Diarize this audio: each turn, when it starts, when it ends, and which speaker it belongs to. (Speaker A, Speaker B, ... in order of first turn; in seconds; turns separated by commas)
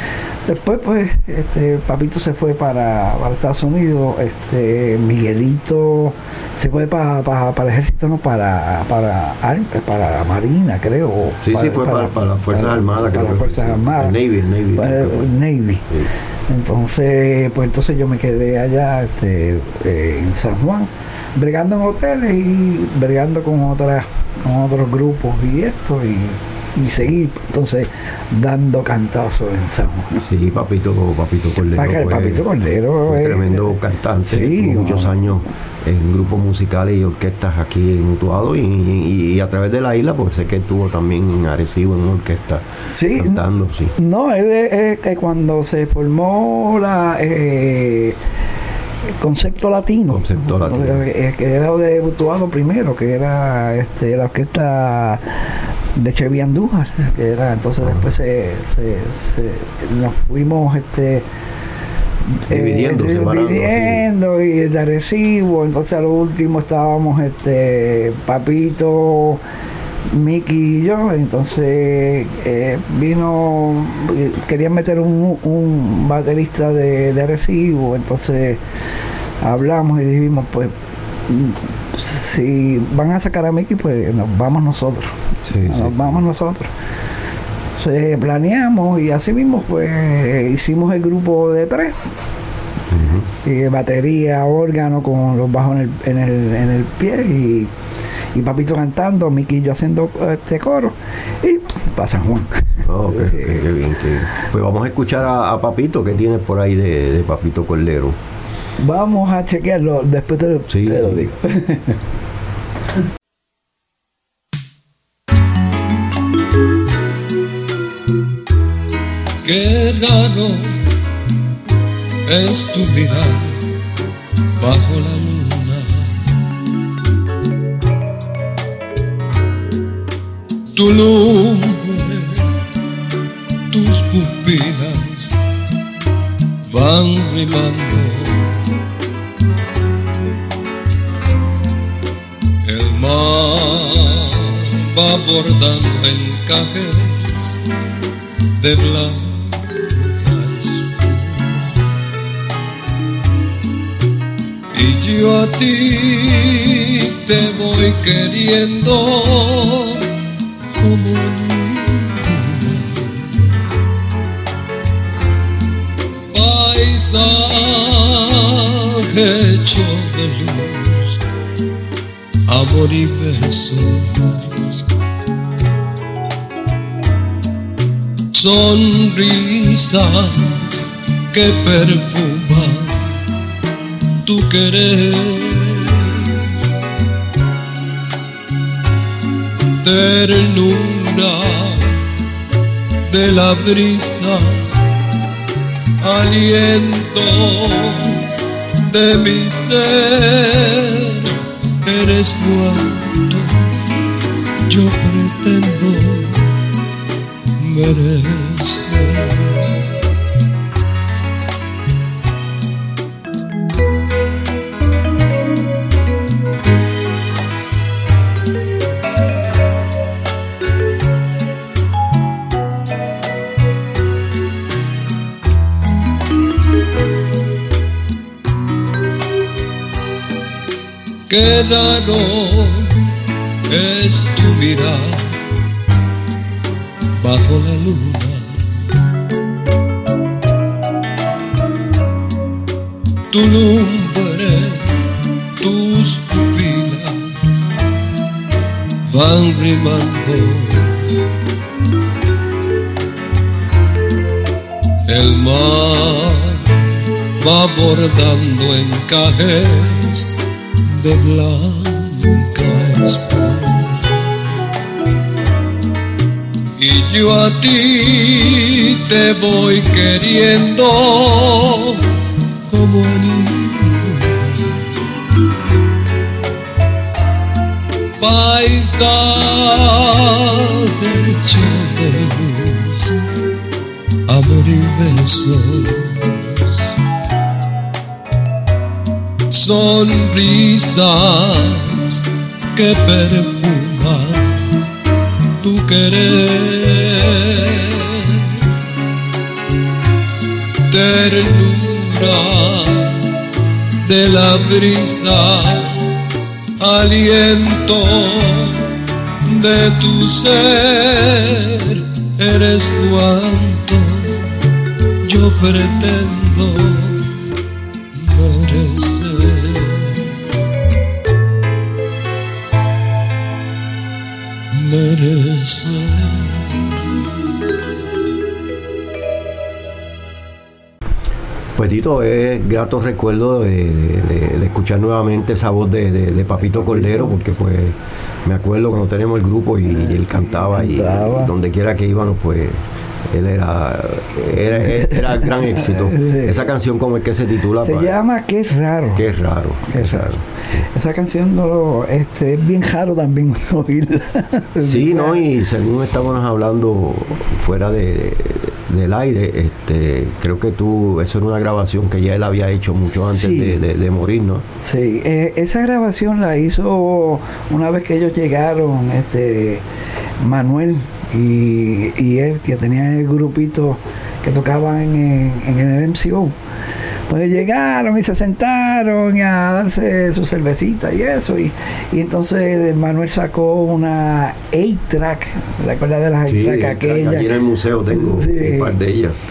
Speaker A: 0.5-14.1, Speaker B: 11.4-15.3, Speaker A: 14.8-15.8, Speaker A: 16.5-30.3, Speaker B: 30.2-32.5, Speaker A: 31.7-35.3, Speaker B: 33.0-43.9, Speaker A: 42.9-43.4, Speaker A: 44.0-48.2, Speaker A: 49.2-55.3, Speaker B: 50.1-51.0, Speaker A: 56.0-61.2, Speaker B: 57.8-58.1, Speaker A: 62.5-69.4, Speaker B: 62.5-64.0, Speaker A: 70.1-78.6, Speaker A: 79.4-80.7, Speaker A: 81.3-86.7, Speaker B: 85.5-86.3, Speaker A: 87.8-92.0, Speaker B: 92.9-93.3, Speaker A: 93.5-97.7, Speaker A: 98.3-103.7, Speaker B: 102.9-108.2, Speaker A: 108.8-112.0, Speaker B: 110.7-111.2, Speaker C: 119.4-120.8, Speaker C: 122.3-123.6, Speaker C: 124.6-126.3, Speaker C: 130.7-132.6, Speaker C: 133.7-135.4, Speaker C: 136.7-138.6, Speaker C: 142.7-147.6, Speaker C: 148.6-151.7, Speaker C: 154.7-160.1, Speaker C: 160.8-163.5, Speaker C: 166.3-171.2, Speaker C: 172.5-174.8, Speaker C: 178.3-183.1, Speaker C: 184.2-186.4, Speaker C: 189.8-192.0, Speaker C: 193.1-194.8, Speaker C: 196.0-198.2, Speaker C: 198.9-201.3, Speaker C: 201.8-203.6, Speaker C: 204.7-206.5, Speaker C: 207.6-209.8, Speaker C: 231.3-233.0, Speaker C: 233.7-235.4, Speaker C: 237.2-238.6, Speaker C: 243.3-244.9, Speaker C: 245.6-247.8, Speaker C: 249.1-251.1, Speaker C: 255.1-256.7, Speaker C: 257.4-260.3, Speaker C: 260.9-264.1, Speaker C: 266.8-272.0, Speaker C: 272.7-274.8, Speaker C: 278.2-283.2, Speaker C: 284.3-286.6, Speaker C: 289.5-294.6, Speaker C: 295.6-298.6, Speaker C: 300.9-303.3, Speaker C: 304.0-306.0, Speaker C: 306.8-308.9, Speaker C: 309.4-314.5, Speaker C: 315.2-317.3, Speaker C: 318.1-320.3, Speaker C: 324.7-326.8, Speaker B: 331.8-348.1, Speaker A: 336.6-337.4, Speaker A: 339.9-341.5, Speaker A: 344.9-346.7, Speaker A: 347.8-349.2, Speaker B: 349.1-350.9, Speaker A: 349.9-350.4, Speaker A: 350.9-355.5, Speaker B: 354.8-364.6, Speaker A: 363.1-363.8, Speaker A: 364.8-369.8, Speaker A: 370.4-376.6, Speaker A: 377.3-387.5, Speaker B: 386.5-389.4, Speaker A: 388.1-389.0